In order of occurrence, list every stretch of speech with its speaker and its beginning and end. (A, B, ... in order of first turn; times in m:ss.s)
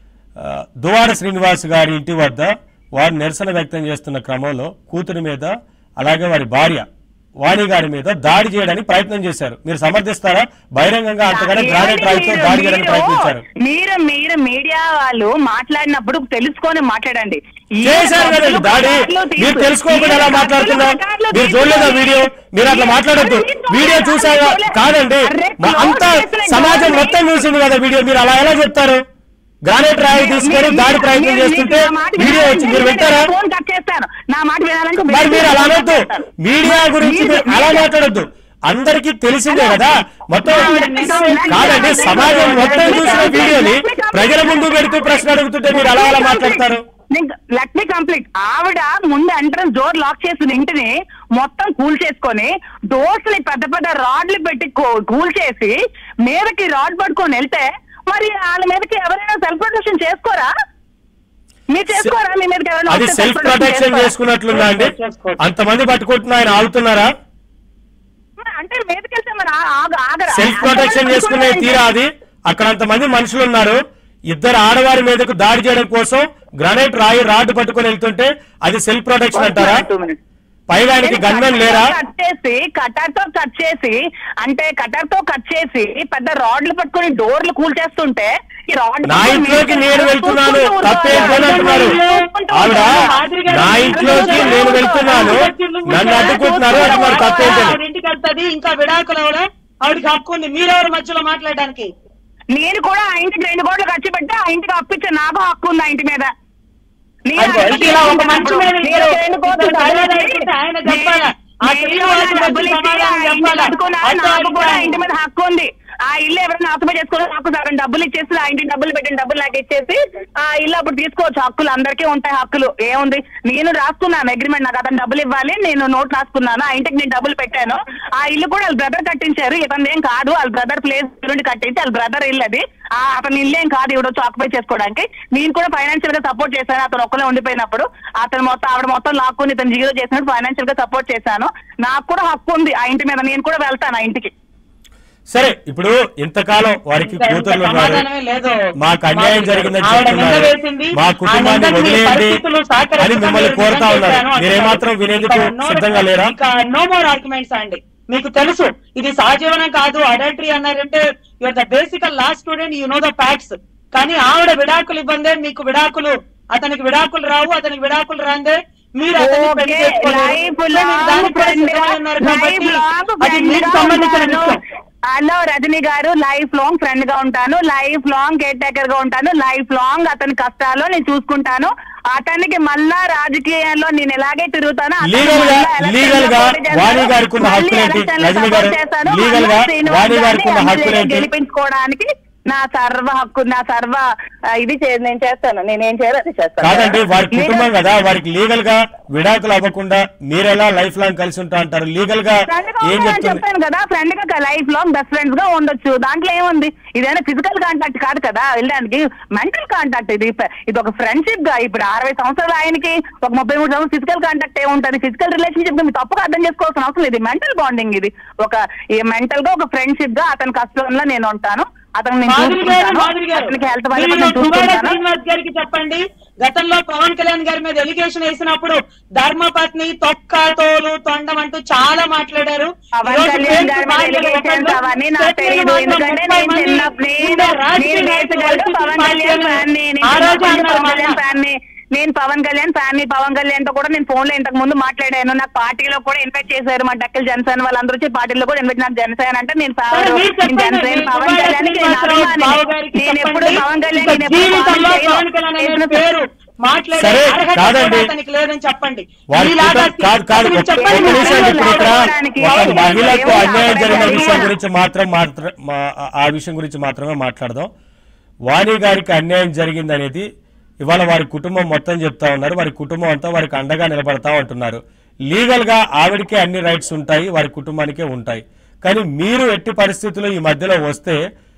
0:00.4-0:06.8 A
0:07.4-0:13.4 A
0:11.3-0:27.2 B
0:17.8-0:29.0 A
0:29.6-0:33.3 A
0:30.1-0:37.9 B
0:35.1-0:40.8 A
0:39.5-0:39.9 B
0:40.4-0:43.4 C
0:40.4-0:55.7 B
0:41.4-0:46.8 A
0:56.2-1:00.5 B
1:01.7-1:04.1 B
1:02.9-1:07.1 A
1:04.5-1:05.4 C
1:08.4-1:11.8 B
1:10.3-1:13.8 A
1:14.3-1:19.8 A
1:19.3-1:20.2 B
1:20.7-1:21.9 A
1:21.0-1:33.2 B
1:29.1-1:31.9 A
1:31.1-1:41.9 C
1:32.5-1:37.8 A
1:33.9-1:35.4 B
1:36.1-1:37.6 B
1:42.5-1:46.3 B
1:47.3-2:24.3 B
1:47.4-1:54.9 C
2:25.3-2:28.0 A
2:27.0-2:28.6 C
2:28.8-2:32.4 A
2:29.1-2:54.6 C
2:33.0-2:36.3 A
2:49.2-2:54.6 B
2:55.1-3:14.0 B
3:05.0-3:11.3 A
3:14.6-3:17.7 B
3:16.6-3:23.4 A
3:22.5-3:45.0 B
3:42.3-4:01.2 C
3:53.0-4:16.0 B
4:09.9-4:24.5 C
4:16.9-4:18.1 A
4:19.3-4:27.7 A
4:20.8-4:24.5 B
4:28.5-4:30.2 A
4:30.8-4:41.2 A